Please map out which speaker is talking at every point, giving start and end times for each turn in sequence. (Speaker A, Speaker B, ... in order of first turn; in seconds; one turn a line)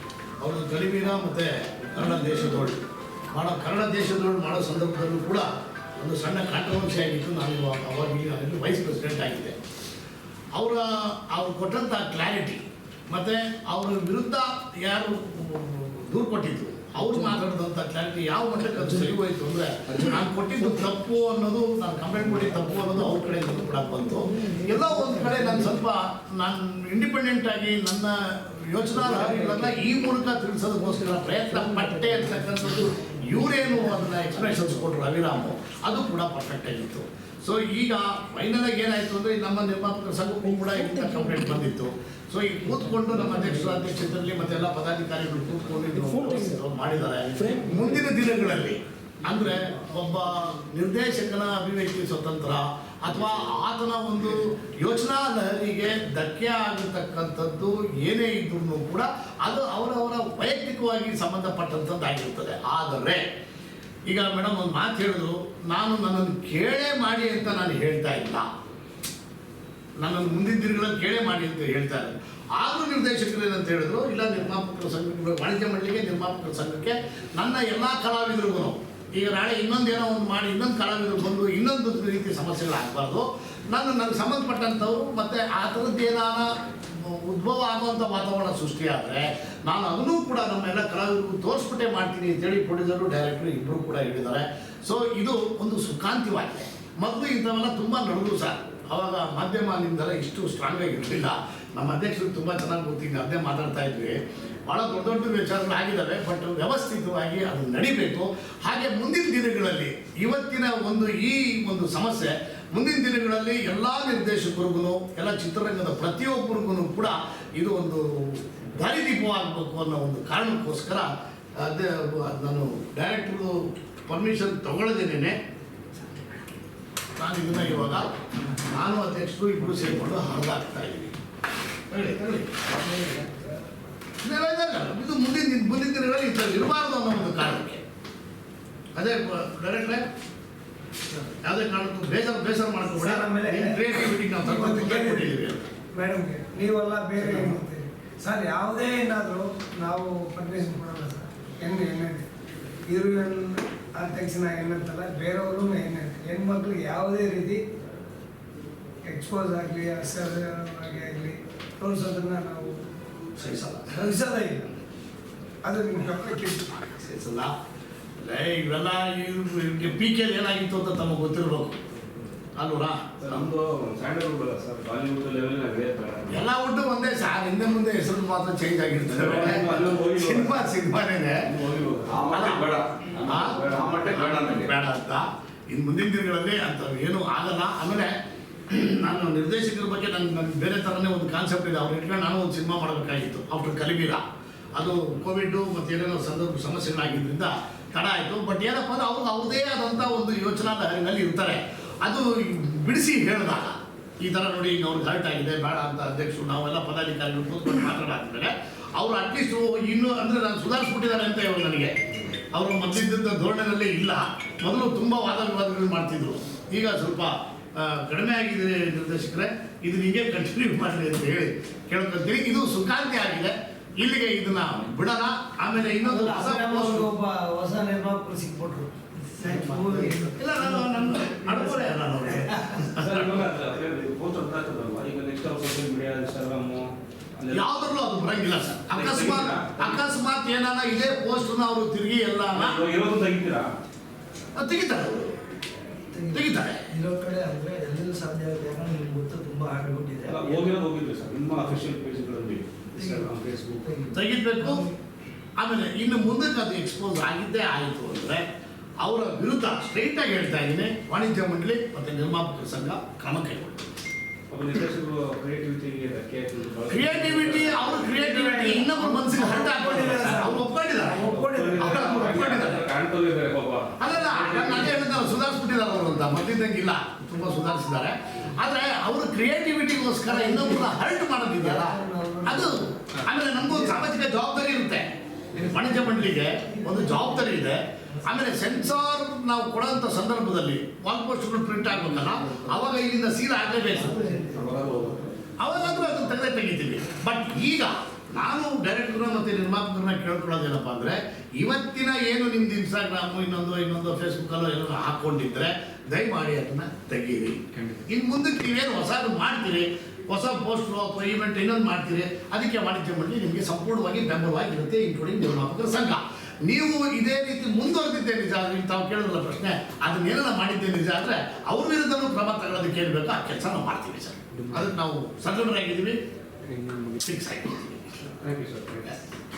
Speaker A: 0.4-5.5
Speaker A: 6.0-9.6
Speaker A: 10.5-63.2
Speaker B: 24.4-25.7
Speaker B: 29.2-29.6
Speaker B: 32.5-33.7
Speaker B: 47.3-48.1
Speaker A: 64.1-68.5
Speaker A: 70.0-125.4
Speaker A: 127.2-131.1
Speaker A: 131.9-132.6
Speaker A: 134.2-137.8
Speaker A: 138.9-140.1
Speaker A: 141.4-145.7
Speaker C: 142.9-143.8
Speaker C: 144.4-145.3
Speaker C: 145.9-152.3
Speaker A: 147.2-147.5
Speaker C: 152.8-157.6
Speaker C: 159.1-162.8
Speaker A: 163.4-163.8
Speaker C: 163.7-164.8
Speaker C: 165.6-166.9
Speaker A: 166.9-167.5
Speaker A: 168.2-171.8
Speaker A: 172.6-173.4
Speaker D: 173.2-176.4
Speaker A: 176.3-181.4
Speaker D: 179.1-180.7
Speaker D: 181.4-184.7
Speaker A: 182.2-188.1
Speaker A: 188.7-194.2
Speaker A: 194.7-211.9
Speaker A: 212.5-227.1
Speaker C: 226.0-232.5
Speaker A: 229.6-233.5
Speaker D: 232.9-237.6
Speaker A: 237.5-242.8
Speaker D: 238.9-240.0
Speaker D: 242.5-243.7
Speaker A: 244.6-245.3
Speaker B: 246.2-250.4
Speaker A: 246.3-246.8
Speaker D: 250.2-254.0
Speaker A: 254.1-254.9
Speaker A: 255.6-258.4
Speaker A: 259.0-263.9
Speaker D: 264.5-268.2
Speaker A: 266.9-272.9
Speaker C: 268.1-272.4
Speaker D: 271.2-275.2
Speaker A: 274.0-294.4
Speaker C: 280.3-283.0
Speaker C: 283.6-284.1
Speaker B: 285.8-286.1
Speaker B: 286.6-287.2
Speaker B: 293.9-294.8
Speaker D: 294.4-295.4
Speaker A: 295.6-326.2
Speaker D: 326.7-327.1
Speaker A: 327.2-328.2
Speaker D: 328.4-329.1